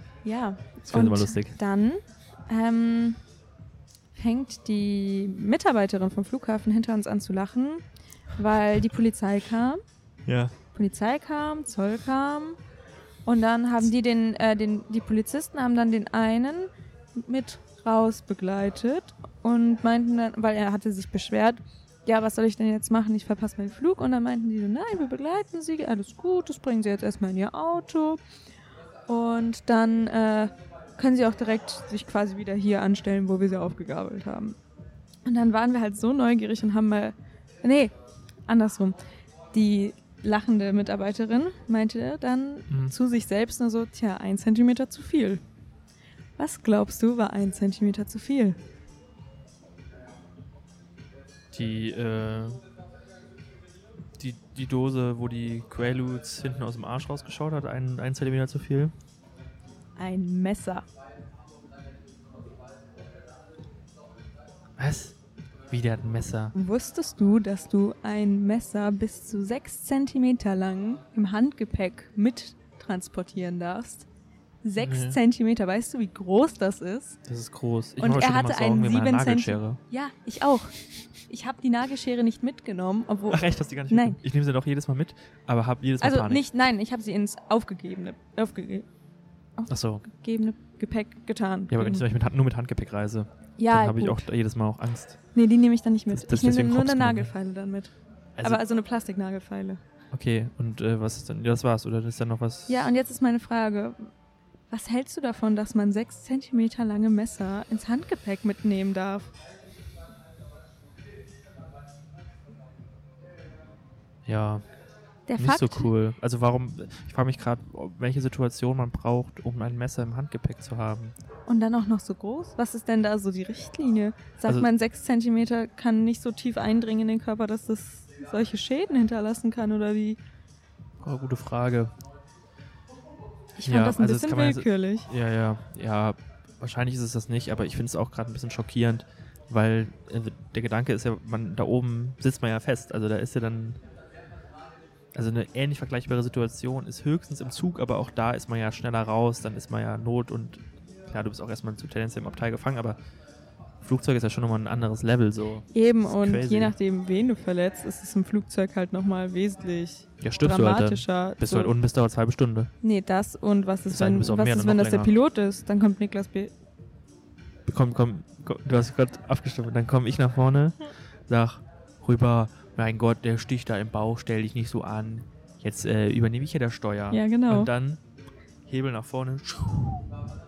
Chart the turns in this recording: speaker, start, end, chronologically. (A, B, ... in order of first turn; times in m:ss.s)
0:00.2-0:03.2 A
0:00.9-0:01.6 B
0:04.1-0:09.8 A
0:10.3-0:10.5 B
0:10.7-0:12.6 A
0:13.2-0:28.2 A
0:29.1-0:34.6 A
0:35.2-0:38.0 A
0:38.5-0:39.0 A
0:39.5-0:45.4 A
0:42.7-0:42.9 B
0:46.4-0:48.6 A
0:51.5-0:52.6 B
0:54.2-0:58.9 B
1:00.0-1:00.8 A
1:04.8-1:05.2 B
1:05.7-1:06.5 B
1:06.5-1:14.1 A
1:14.6-1:17.2 A
1:14.8-1:15.2 B
1:17.3-1:19.8 B
1:18.0-1:20.7 A
1:21.3-1:24.2 A
1:23.3-1:26.4 B
1:26.0-1:28.9 A
1:29.6-1:32.0 A
1:29.7-1:30.0 B
1:31.7-1:35.2 B
1:33.6-1:34.3 A
1:35.3-1:39.8 A
1:36.1-1:37.3 B
1:40.1-1:42.8 B
1:42.7-1:44.1 A
1:44.7-1:49.3 A
1:54.2-1:54.6 B
1:55.3-1:55.9 A
1:55.4-2:01.2 B
2:01.5-2:10.2 A
2:11.0-2:11.9 B
2:13.6-2:15.1 A
2:13.6-2:23.8 B
2:25.1-2:33.0 B
2:33.8-2:36.7 B
2:35.7-2:41.7 A
2:40.2-2:42.7 B
2:42.8-2:46.5 A
2:43.9-2:45.1 B
2:47.7-2:58.0 B
2:57.1-2:57.7 A
2:58.6-3:00.2 B